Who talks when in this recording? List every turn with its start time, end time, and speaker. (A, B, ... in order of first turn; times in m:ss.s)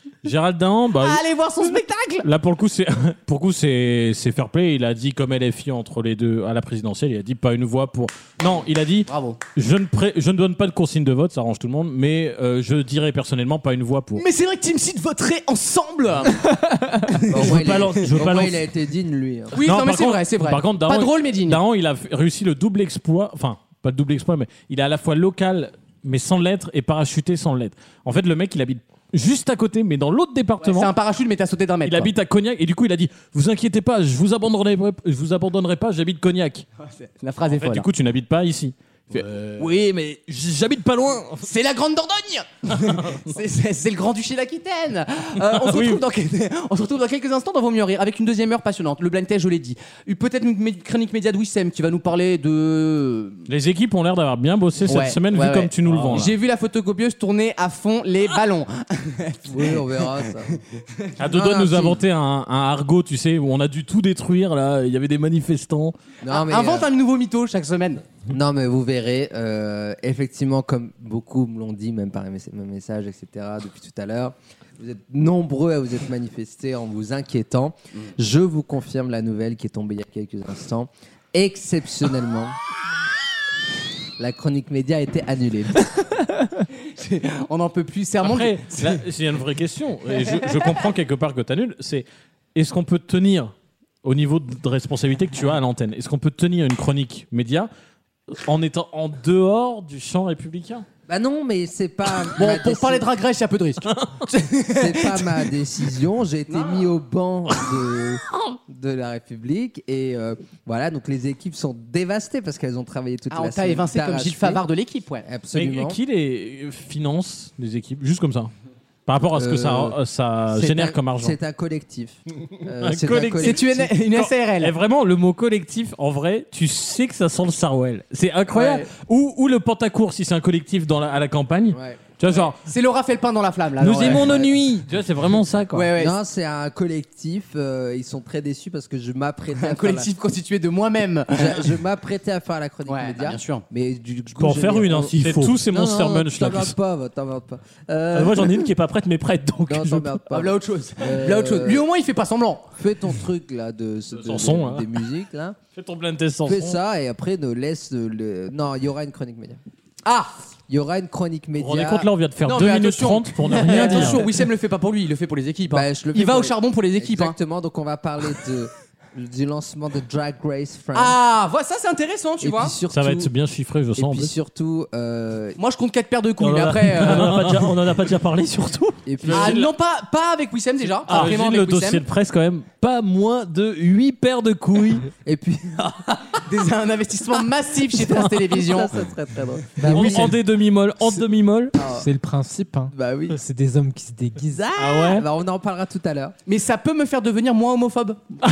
0:00.2-0:01.2 A
0:01.0-0:02.3 B
0:02.2-0:14.2 A
0:09.1-0:09.4 B
0:14.2-0:16.5 B
0:17.1-0:17.5 B
0:17.3-0:19.6 C
0:17.3-0:18.6 D
0:19.5-0:21.6 B
0:19.6-0:30.9 A
0:30.6-0:32.1 B
0:31.8-0:36.6 A
0:36.8-0:37.9 B
0:37.5-0:41.5 A
0:41.4-0:53.4 B
0:45.4-0:46.0 A
0:53.5-0:56.4 A
0:54.9-1:00.6 B
0:59.5-1:00.6 C
1:01.2-1:06.0 A
1:01.3-1:02.0 C
1:06.2-1:06.9 C
1:06.3-1:08.0 B
1:08.3-1:22.6 C
1:24.2-1:26.0 C
1:26.8-1:29.0 B
1:28.2-1:33.5 A
1:34.0-1:37.7 A
1:38.3-1:40.9 A
1:41.1-1:43.1 C
1:42.4-1:45.4 B
1:43.9-1:44.2 A
1:44.7-1:54.6 C
1:46.5-1:46.9 B
1:53.3-1:55.3 B
1:55.2-1:56.0 C
1:55.5-1:58.5 A
1:59.1-2:01.4 A
1:59.3-2:00.0 C
2:00.5-2:03.9 C
2:02.8-2:12.6 A
2:03.4-2:04.7 B
2:08.5-2:08.9 B
2:11.7-2:12.0 C
2:12.3-2:14.3 B
2:13.8-2:15.9 A
2:14.0-2:14.6 C
2:15.7-2:16.1 B
2:16.0-2:20.1 C
2:19.6-2:21.7 B
2:21.3-2:28.7 C
2:22.9-2:23.6 B
2:24.4-2:25.6 D
2:25.1-2:26.7 A
2:28.1-2:30.2 D
2:29.6-2:31.9 C
2:30.3-2:32.7 B
2:32.8-2:35.6 C
2:34.1-2:34.9 A
2:35.7-2:36.8 A
2:36.5-2:39.6 C
2:40.0-2:40.3 B
2:40.7-2:42.1 C
2:41.6-2:44.3 A
2:42.4-2:47.4 B
2:43.7-2:44.1 C
2:45.7-2:51.2 C
2:50.9-2:52.8 B
2:52.4-2:53.3 C
2:52.9-2:54.3 A
2:54.0-2:55.6 C
2:55.6-2:57.5 B
2:56.4-2:59.0 D
2:56.9-2:57.6 A
2:59.1-2:59.7 C
2:59.2-2:59.7 A
2:59.3-3:02.0 B
3:01.0-3:05.1 A
3:05.2-3:06.4 C
3:06.4-3:08.9 B
3:07.8-3:10.4 C
3:09.8-3:10.3 E
3:09.9-3:11.8 A
3:11.8-3:12.1 C
3:12.0-3:14.6 E
3:12.9-3:13.4 C
3:14.5-3:16.4 C
3:14.8-3:15.2 A
3:16.5-3:18.2 B